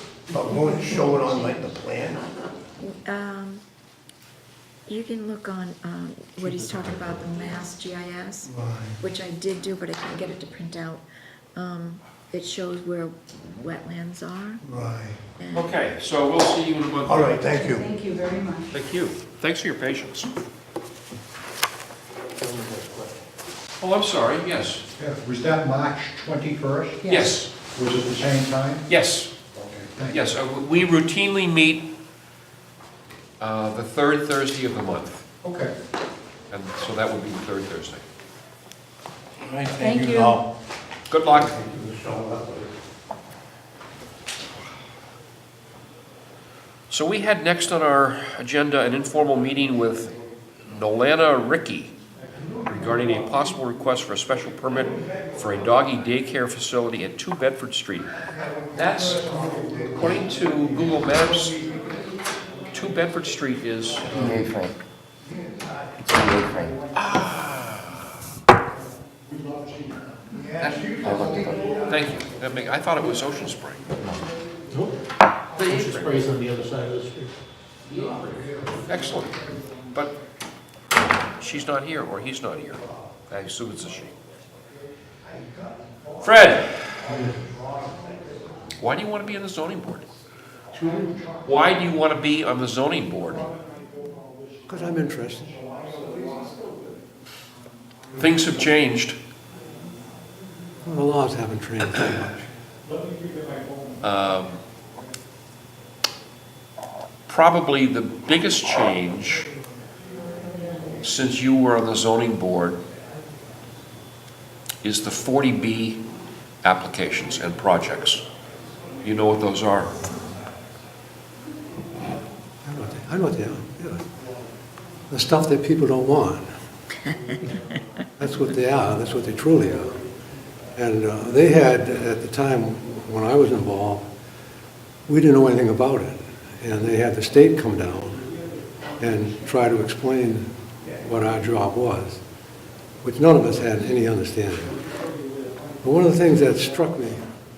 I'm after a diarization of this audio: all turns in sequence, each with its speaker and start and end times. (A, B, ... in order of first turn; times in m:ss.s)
0:00.3-0:02.2 A
0:00.6-0:00.9 B
0:01.2-0:01.5 C
0:02.8-0:03.6 C
0:04.9-0:14.6 C
0:08.4-0:09.0 A
0:14.6-0:15.2 A
0:15.4-0:15.7 C
0:15.5-0:17.4 D
0:17.0-0:17.9 A
0:17.5-0:18.7 B
0:18.7-0:20.3 D
0:22.4-0:23.1 E
0:23.8-0:24.8 D
0:25.0-0:28.8 F
0:27.0-0:27.4 B
0:27.1-0:27.5 D
0:28.9-0:29.3 D
0:29.8-0:30.2 F
0:30.1-0:31.9 D
0:33.4-0:35.2 D
0:35.4-0:35.7 F
0:36.5-0:38.0 D
0:39.4-0:40.5 A
0:39.8-0:40.4 B
0:41.1-0:41.5 D
0:41.3-0:42.7 A
0:46.9-0:50.1 D
0:50.6-0:51.9 D
0:52.6-0:58.1 D
0:58.3-1:01.8 A
0:58.7-1:01.6 D
1:02.7-1:04.2 D
1:04.1-1:04.7 G
1:04.1-1:04.4 A
1:05.2-1:06.6 A
1:06.0-1:06.8 G
1:06.9-1:08.1 D
1:10.2-1:12.2 A
1:10.6-1:11.0 D
1:10.9-1:11.8 G
1:11.8-1:13.9 D
1:15.5-1:16.2 D
1:15.6-1:17.3 E
1:17.9-1:18.8 A
1:18.9-1:19.4 D
1:21.4-1:24.1 D
1:25.3-1:26.0 A
1:26.2-1:27.1 D
1:27.1-1:27.4 H
1:27.1-1:28.4 A
1:28.8-1:30.0 D
1:30.8-1:31.1 H
1:31.4-1:33.5 D
1:34.7-1:35.5 H
1:38.1-1:39.2 D
1:40.8-1:42.5 H
1:44.0-1:44.6 D
1:47.3-1:49.5 D
1:51.0-1:52.8 D
1:54.8-1:56.0 D
1:56.6-1:58.2 D
1:59.0-2:00.0 D
2:02.6-2:04.1 H
2:05.1-2:06.5 H
2:08.2-2:10.0 H
2:10.7-2:14.0 H
2:15.1-2:18.3 H
2:19.0-2:22.2 H
2:23.0-2:24.8 H
2:25.8-2:27.2 H